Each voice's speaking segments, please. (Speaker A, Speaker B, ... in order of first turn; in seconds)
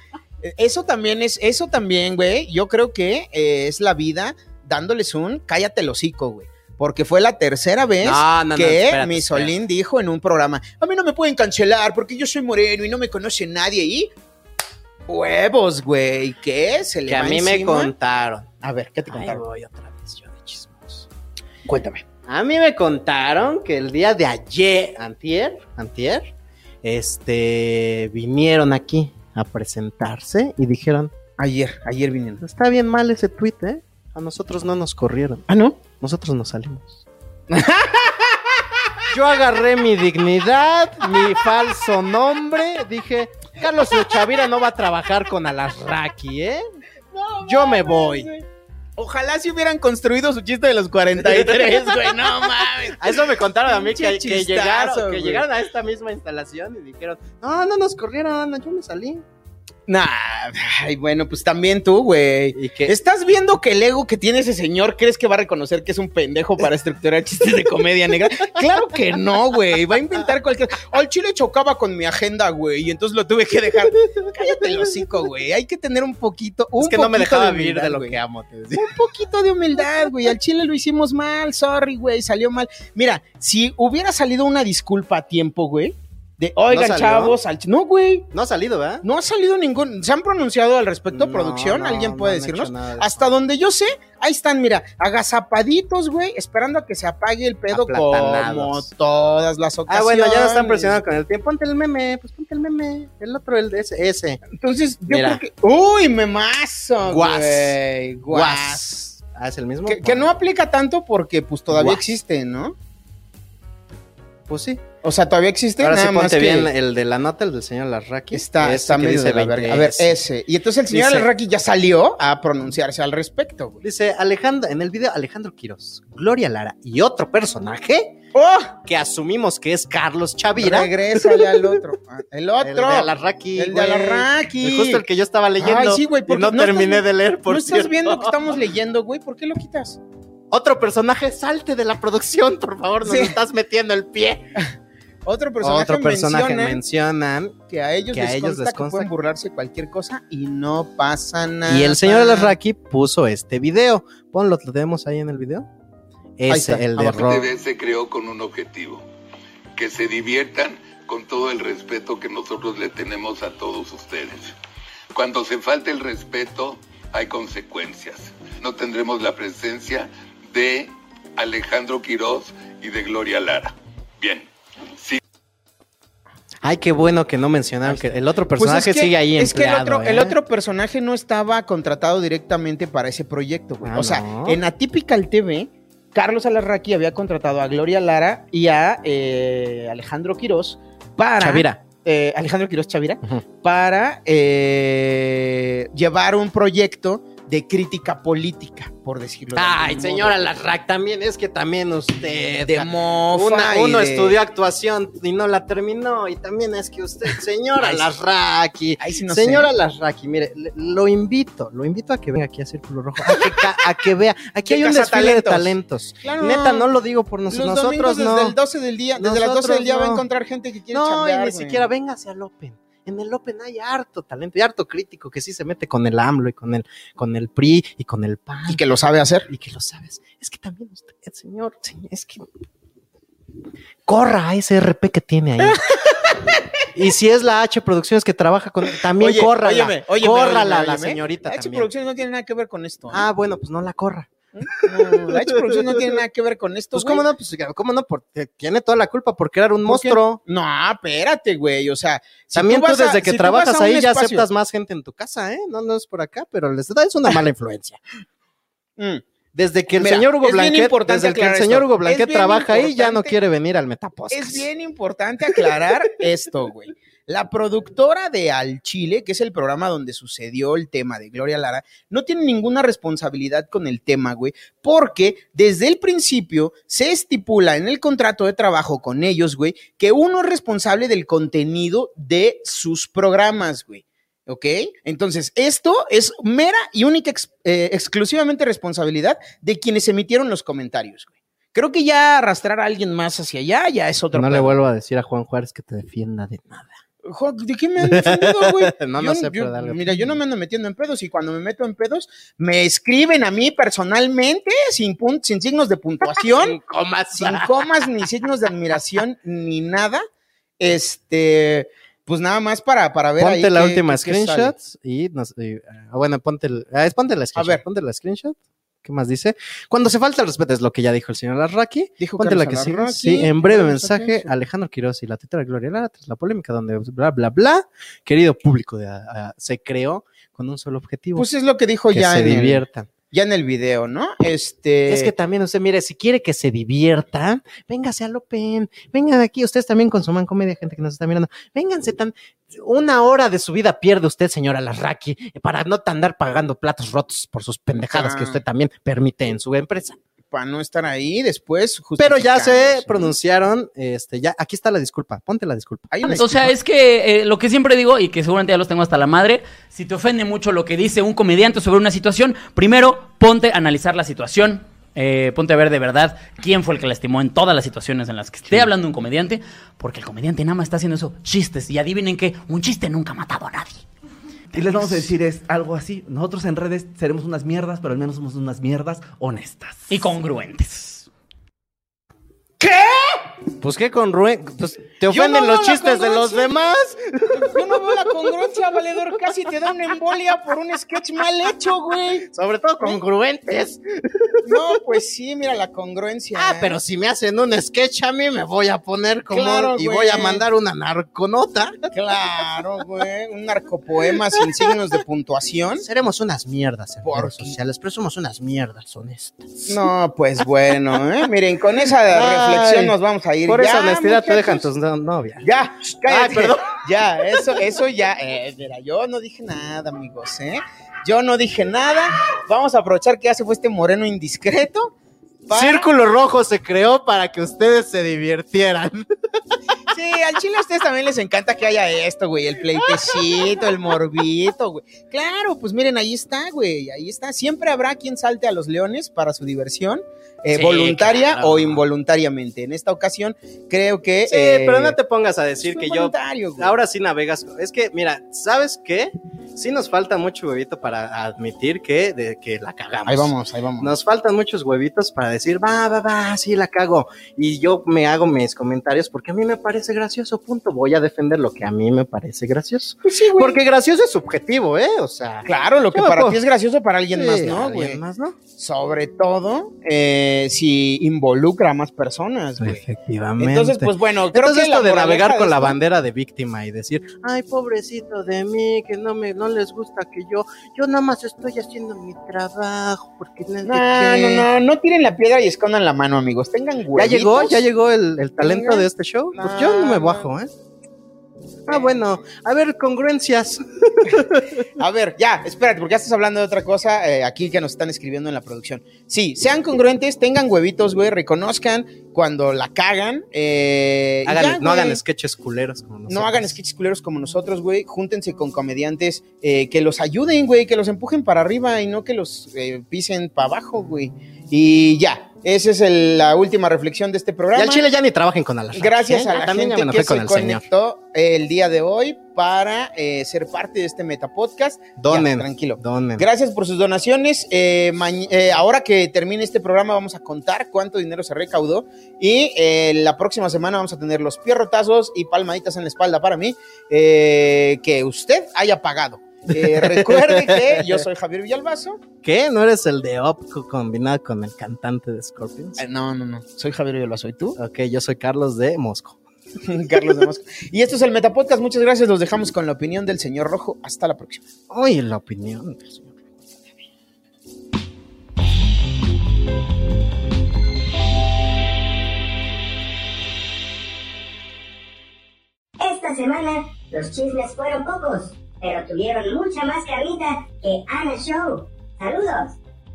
Speaker A: 0.4-14.1, 15.1-17.9, 18.6-19.4, 21.6-22.1, 31.4-32.4, 35.5-35.8, 37.5-38.9, 41.0-41.7, 43.6-44.4, 47.1-48.5, 49.0-55.5, 59.9-78.2, 78.8-88.3, 89.0-101.0, 104.5-109.0, 109.9-112.8, 115.0-116.7, 118.3-123.8, 128.3-128.8, 130.6-135.0, 135.6-140.0, 143.0-143.4, 145.2-146.8, 147.7-152.6, 156.5-157.5, 177.8-200.5, 202.7-204.4, 207.8-208.1, 209.0-209.7, 213.3-213.6, 214.7-216.9, 217.5-221.9, 228.7-229.5, 239.1-243.2, 244.5-247.3, 249.8-254.5, 259.0-259.2, 259.9-263.4, 264.3-294.8, 297.2-306.8, 307.4-310.2, 310.8-314.8, 317.6-317.8, 322.2-324.6, 331.4-335.3, 348.1-348.6, 350.5-353.4, 356.1-356.7, 382.8-383.5, 385.3-386.8, 387.6-392.5, 394.6-397.0, 399.5-400.6, 402.1-406.1, 407.2-407.8, 409.9-414.9, 415.6-425.1, 425.7-426.1, 430.1-445.2, 445.8-447.0, 453.3-454.1, 463.3-463.8, 465.6-468.2, 468.8-473.1, 473.6-476.0, 483.9-487.9, 488.6-490.5, 491.9-492.2, 495.0-505.2, 506.3-518.1, 518.9-542.2, 546.0-547.8, 549.9-554.7
Speaker B: 8.0-9.6, 17.1-18.5, 19.1-21.1, 22.3-26.3, 26.8-31.1, 32.4-37.0, 39.1-46.7, 47.4-48.3, 53.0-59.2, 62.5-63.0, 74.1-75.0, 76.8-79.0, 86.7-87.4, 88.3-89.0, 91.1-93.3, 97.7-98.9, 99.9-104.4, 105.1-105.4, 107.0-107.8, 108.3-110.3, 111.7-112.0, 114.5-114.8, 115.8-120.2, 120.9-121.3, 123.8-128.2, 128.8-131.8, 132.6-138.4, 140.5-144.5, 145.6-147.6, 148.1-149.1, 151.7-155.7, 156.4-157.5, 176.6-180.4, 183.8-184.6, 191.4-191.8, 199.6-218.6, 219.2-220.2, 220.9-228.9, 229.5-232.5, 234.1-236.1, 236.9-241.9, 243.1-246.2, 246.9-250.4, 252.6-258.0, 259.5-264.7, 294.3-297.0, 298.0-300.4, 306.2-308.3, 313.4-331.5, 332.1-333.1, 335.1-350.2, 352.2-356.4, 383.8-388.4, 392.5-394.6, 396.6-401.9, 404.6-404.9, 406.0-410.0, 412.2-415.7, 416.3-417.0, 425.7-429.8, 440.7-442.0, 444.5-466.6, 467.3-468.6, 472.8-484.7, 487.1-490.7, 491.9-494.9, 504.5-506.7, 517.8-520.9, 525.2-526.5, 539.7-541.2, 542.4-546.0, 547.8-549.4, 554.9-556.9
Speaker C: 157.3-159.1, 159.8-164.5, 165.1-175.2
Speaker D: 356.2-374.1, 380.1-381.3
Speaker E: 374.7-380.2
Speaker F: 566.0-572.8